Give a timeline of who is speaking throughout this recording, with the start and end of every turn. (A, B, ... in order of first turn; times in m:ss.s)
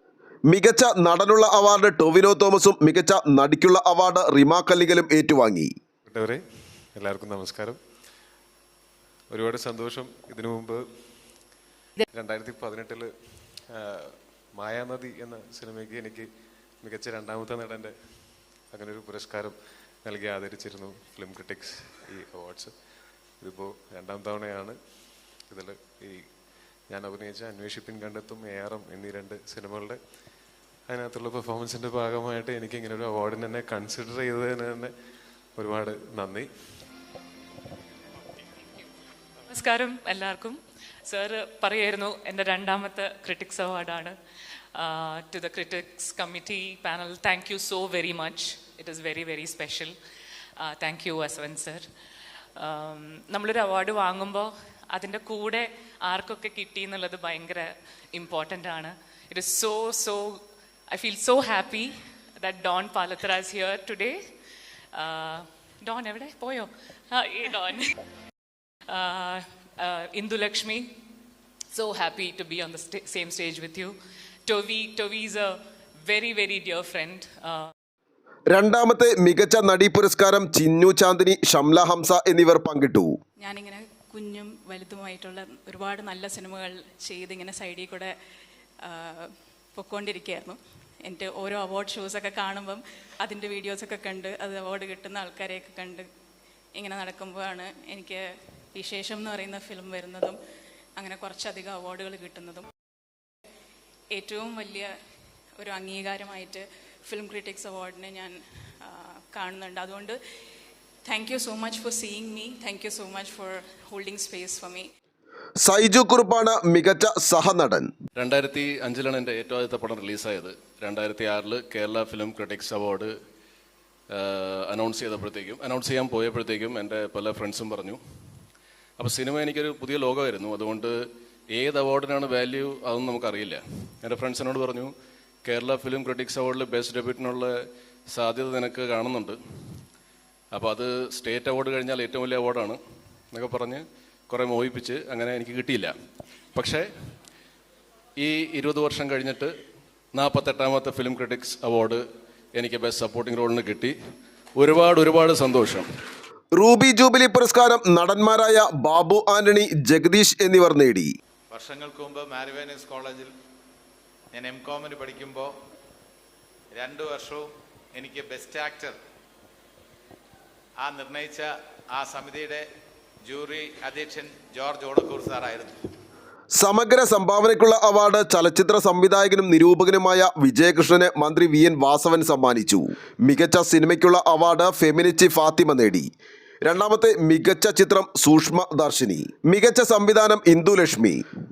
0:00.5-0:05.7 A
0:06.1-0:07.8 B
0:09.3-0:11.3 B
0:12.1-0:22.8 B
0:23.4-0:30.0 B
0:30.9-0:34.9 B
0:35.6-0:36.8 B
0:39.5-0:44.1 C
0:44.8-0:49.9 C
0:50.6-0:51.9 C
0:52.6-1:04.2 C
1:05.0-1:07.9 C
1:08.9-1:10.9 C
1:11.7-1:13.9 C
1:14.5-1:15.5 C
1:16.0-1:17.7 C
1:18.5-1:23.1 A
1:23.4-1:28.1 D
1:28.8-1:36.1 D
1:36.8-1:40.4 D
1:41.0-1:42.7 D
1:44.1-1:44.9 D
1:45.6-1:50.2 D
1:51.1-1:54.9 D
1:55.6-1:57.9 A
1:58.2-2:03.1 E
2:04.1-2:08.0 E
2:09.0-2:10.9 E
2:11.5-2:14.9 E
2:15.4-2:17.5 E
2:18.1-2:19.8 E
2:20.5-2:22.8 E
2:23.3-2:25.9 E
2:26.5-2:26.8 E
2:28.2-2:29.5 E
2:30.1-2:32.0 E
2:32.6-2:33.9 E
2:34.6-2:35.8 E
2:36.5-2:41.1 A
2:41.5-2:43.3 F
2:44.3-2:45.5 F
2:46.7-2:49.0 F
2:50.8-2:52.7 F
2:53.2-2:55.8 F
2:56.6-3:06.1 A
3:06.6-3:11.2 A